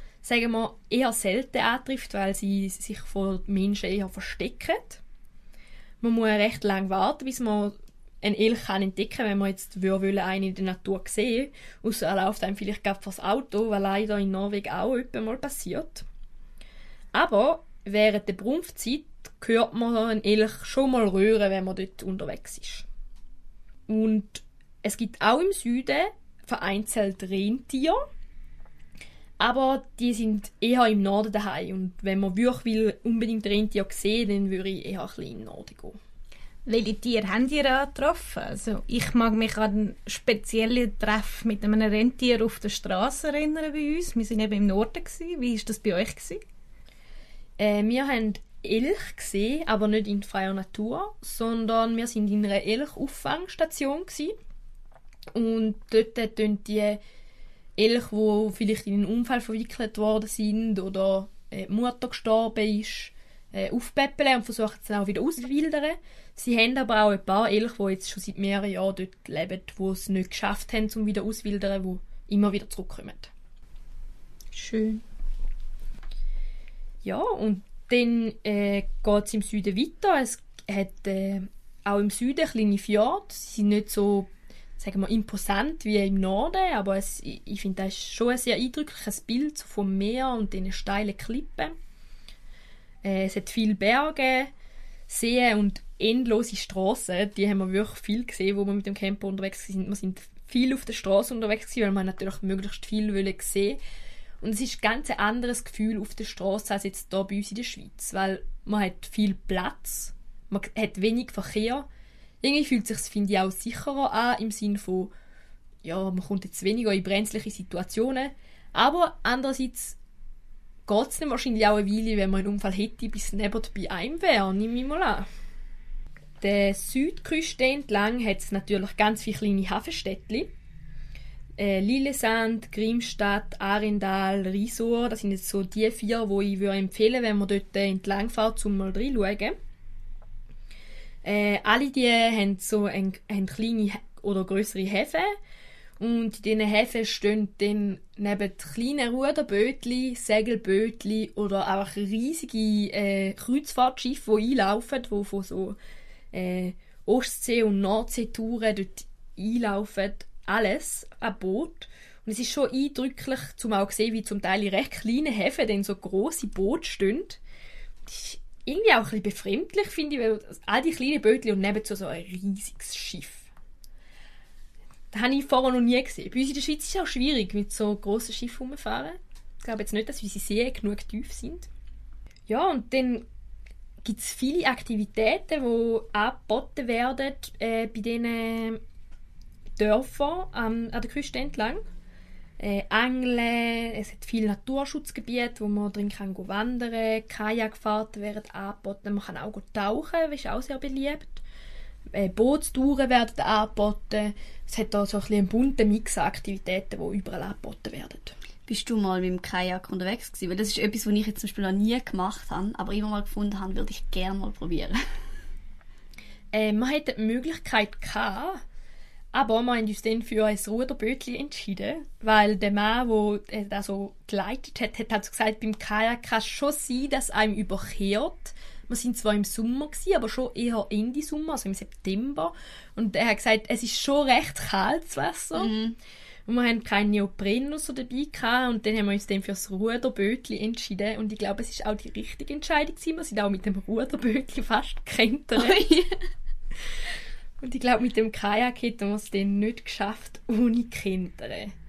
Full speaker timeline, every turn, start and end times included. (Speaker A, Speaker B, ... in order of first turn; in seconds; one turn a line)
Speaker A: 0.2-5.0
Speaker A: 6.0-16.0
Speaker A: 17.1-22.9
Speaker A: 23.9-28.0
Speaker A: 29.4-36.0
Speaker B: 36.6-46.4
Speaker A: 47.6-54.3
Speaker A: 55.3-57.0
Speaker A: 57.8-73.3
Speaker B: 74.5-75.0
Speaker A: 77.0-91.7
Speaker A: 93.0-94.5
Speaker A: 95.1-103.8
Speaker A: 104.4-111.9
Speaker A: 112.4-115.1
Speaker A: 115.8-120.0
Speaker A: 120.8-125.3
Speaker A: 126.4-130.5
Speaker A: 131.6-139.6
Speaker A: 141.2-145.3
Speaker A: 146.0-155.8
Speaker A: 156.3-167.4
Speaker A: 168.1-173.5
Speaker A: 175.1-181.7
Speaker A: 182.5-183.2
Speaker A: 184.0-188.8
Speaker A: 189.8-191.8
Speaker A: 192.6-201.4
Speaker A: 202.1-208.3
Speaker C: 208.7-215.0
Speaker A: 216.5-218.6
Speaker A: 219.3-235.7
Speaker C: 235.5-236.0
Speaker A: 236.5-245.9
Speaker C: 245.6-246.2
Speaker A: 247.6-251.7